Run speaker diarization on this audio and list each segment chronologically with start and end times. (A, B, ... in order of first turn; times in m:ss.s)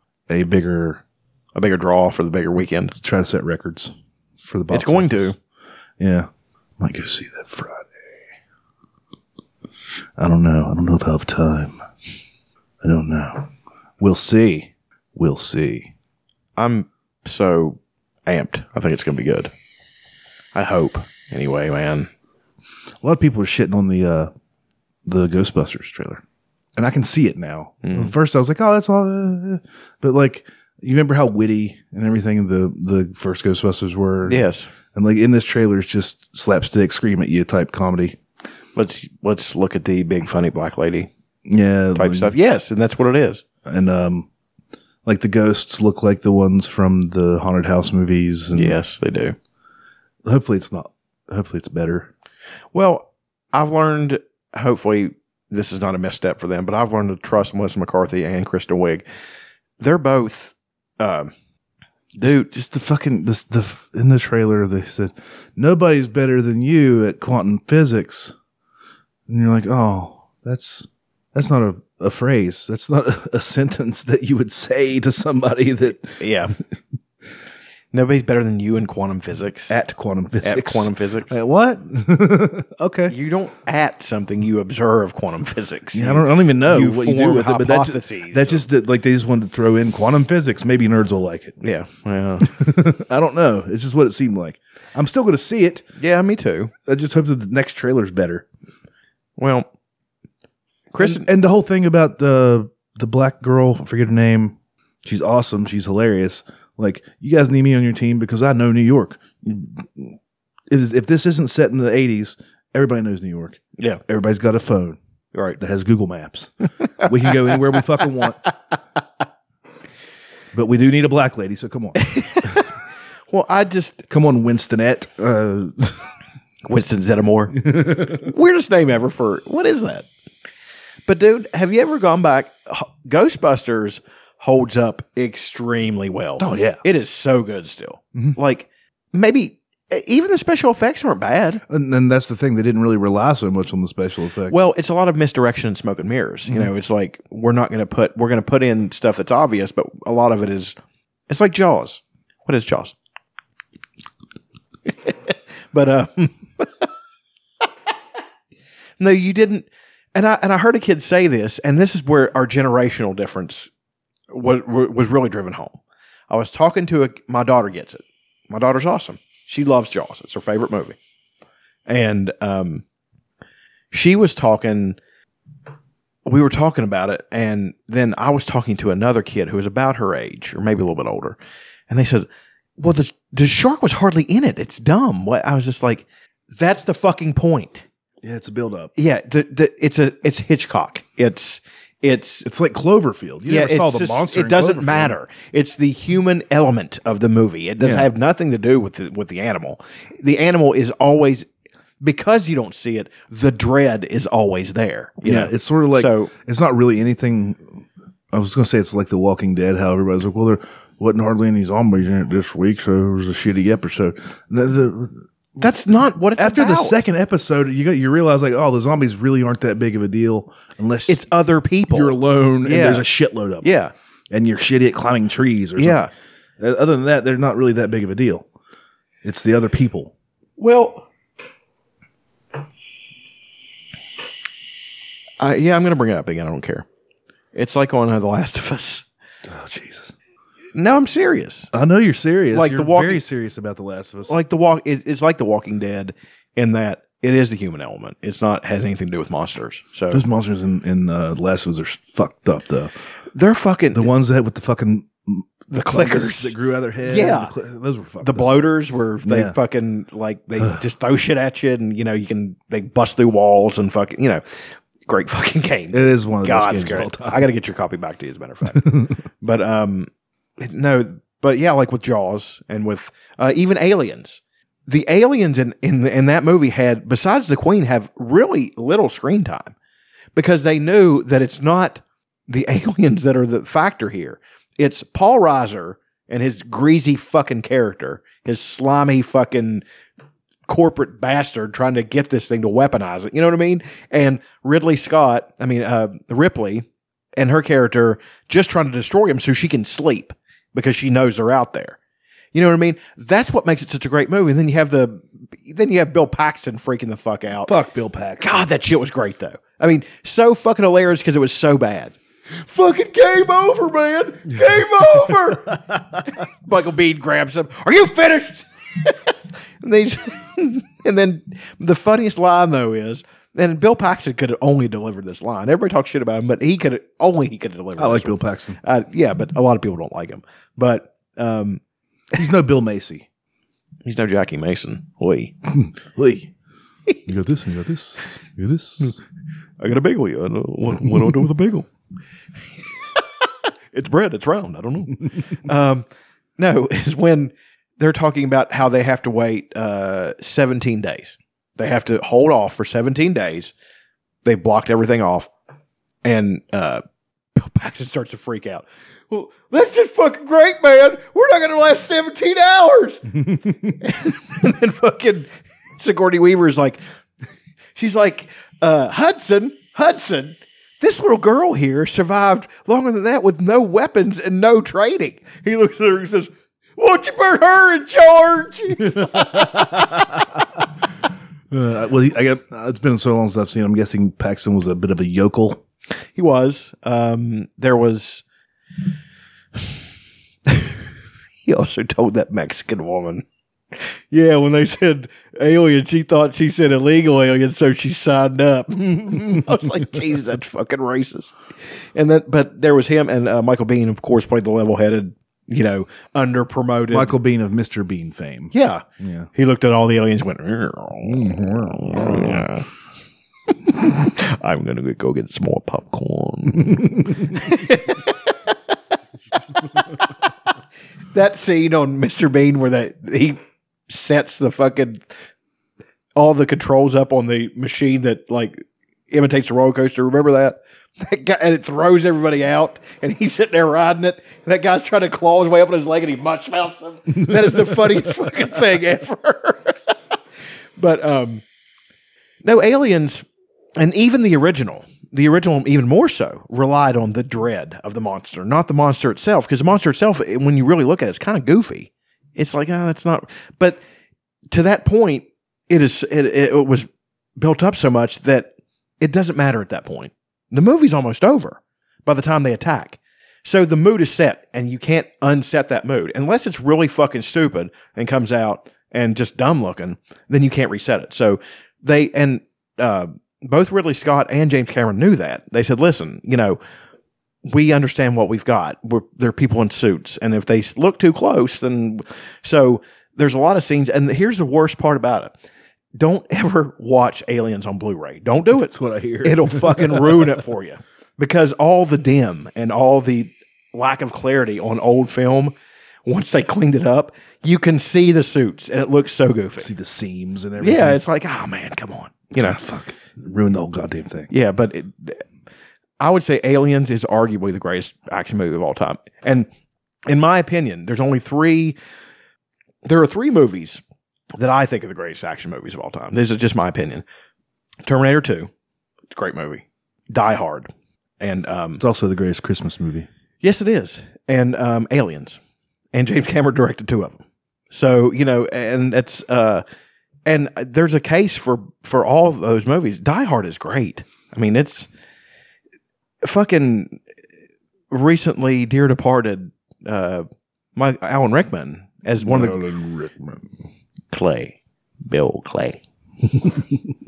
0:00.3-0:01.0 A
0:01.6-0:03.0 B
0:03.0-0:03.9 A
0:04.4-0:05.3 A
0:04.7-0:05.4 B
0:06.0-0:08.2 A
0:10.2-0:11.8 A
0:12.8-0:13.5 A
0:14.0-0:15.9 A
0:16.6-0:19.5 B
0:20.5-0:22.1 B
0:23.0-0:24.3 A
0:25.0-0:26.2 A
0:26.8-0:38.2 A
0:27.8-0:28.1 B
0:34.3-0:34.7 B
0:38.7-0:41.1 B
0:41.4-0:42.3 A
0:42.0-0:43.4 B
0:43.6-0:44.3 A
0:45.0-0:48.8 A
0:48.5-0:49.4 B
0:50.2-0:52.1 A
0:52.7-0:59.0 B
0:59.8-1:01.3 B
1:02.2-1:02.5 B
1:02.2-1:08.3 A
1:09.3-1:16.2 A
1:16.2-1:16.6 B
1:17.9-1:19.8 B
1:19.7-1:23.1 A
1:20.4-1:21.3 B
1:23.1-1:28.6 B
1:25.9-1:31.6 A
1:31.6-1:32.6 B
1:32.4-1:35.8 A
1:36.0-1:36.7 B
1:36.9-1:38.4 A
1:39.4-1:39.7 B
1:40.9-1:41.3 B
1:41.0-1:50.2 A
1:50.7-1:55.0 A
1:55.3-1:55.6 B
1:55.6-1:58.4 A
1:57.0-1:57.8 B
2:00.5-2:02.6 A
2:02.0-2:02.7 B
2:03.3-2:04.0 B
2:04.1-2:06.1 A
2:06.6-2:10.1 B
2:07.6-2:08.3 A
2:11.0-2:21.6 B
2:16.4-2:16.8 A
2:21.7-2:24.6 A
2:24.5-2:30.8 B
2:31.3-2:32.9 B
2:34.9-2:36.9 B
2:39.0-2:43.7 B
2:44.3-2:51.0 B
2:51.9-2:52.8 B
2:53.9-2:55.0 B
2:56.3-3:01.4 B
3:01.9-3:02.3 B
3:02.8-3:07.9 B
3:08.2-3:08.9 A
3:09.0-3:12.5 B
3:12.4-3:15.2 A
3:13.5-3:21.5 B
3:17.8-3:18.1 A
3:22.0-3:26.3 B
3:25.2-3:27.7 A
3:28.3-3:35.2 A
3:35.6-3:37.0 B
3:36.4-3:41.3 A
3:41.1-3:43.1 B
3:41.9-3:43.8 A
3:43.6-3:43.9 B
3:44.3-3:46.1 A
3:45.8-3:46.1 B
3:46.6-3:48.4 A
3:49.2-3:50.1 A
3:50.6-3:51.1 B
3:55.4-3:56.9 B
3:57.5-3:59.0 B
3:59.5-4:00.1 A
4:00.7-4:01.7 B
4:01.7-4:04.4 A
4:02.5-4:03.2 B
4:04.3-4:10.2 B
4:10.1-4:12.9 A
4:13.3-4:14.1 B
4:13.9-4:18.6 A
4:15.7-4:17.5 B
4:18.2-4:24.4 B
4:19.2-4:19.6 A
4:25.0-4:39.7 B
4:25.9-4:27.4 A
4:28.7-4:29.1 A
4:40.3-4:49.8 B
4:50.7-4:56.9 B
4:57.4-5:02.0 B
5:02.5-5:07.7 B
5:07.6-5:08.6 A
5:08.4-5:19.2 B
5:19.8-5:31.8 B
5:28.0-5:28.8 A
5:32.3-5:33.3 A
5:34.0-5:35.5 B
5:35.7-5:36.5 A
5:37.3-5:39.2 A
5:39.8-5:41.9 B
5:43.9-5:46.0 B
5:46.6-5:53.7 B
5:54.4-5:55.5 B
5:56.2-5:57.0 B
5:57.6-6:07.0 B
6:07.9-6:19.9 B
6:19.1-6:20.6 A
6:21.7-6:25.8 A
6:26.4-6:28.4 B
6:30.7-6:31.0 B
6:31.6-6:33.4 B
6:34.0-6:41.6 B
6:42.1-6:47.4 B
6:47.1-6:49.5 A
6:48.7-6:52.9 B
6:51.2-6:52.7 A
6:53.8-6:58.5 B
7:01.3-7:05.2 B
7:06.4-7:20.1 B
7:21.0-7:21.6 B
7:22.6-7:23.4 B
7:24.0-7:34.0 B
7:34.7-7:56.8 B
7:57.6-8:05.5 B
8:06.1-8:15.7 B
8:08.7-8:10.5 A
8:16.3-8:19.9 B
8:19.8-8:21.2 A
8:20.8-8:22.8 B
8:22.6-8:24.5 A
8:24.5-8:25.4 B
8:26.2-8:29.7 B
8:30.3-8:32.0 B
8:33.0-8:34.0 B
8:34.6-8:37.2 B
8:38.0-8:38.7 B
8:39.3-8:42.0 B
8:42.0-8:43.3 A
8:43.6-8:45.6 B
8:46.1-8:49.8 B
8:50.4-8:55.1 B
8:56.4-8:57.2 B
8:58.1-9:02.8 B
9:02.4-9:03.7 A
9:04.3-9:06.0 B
9:06.5-9:07.0 A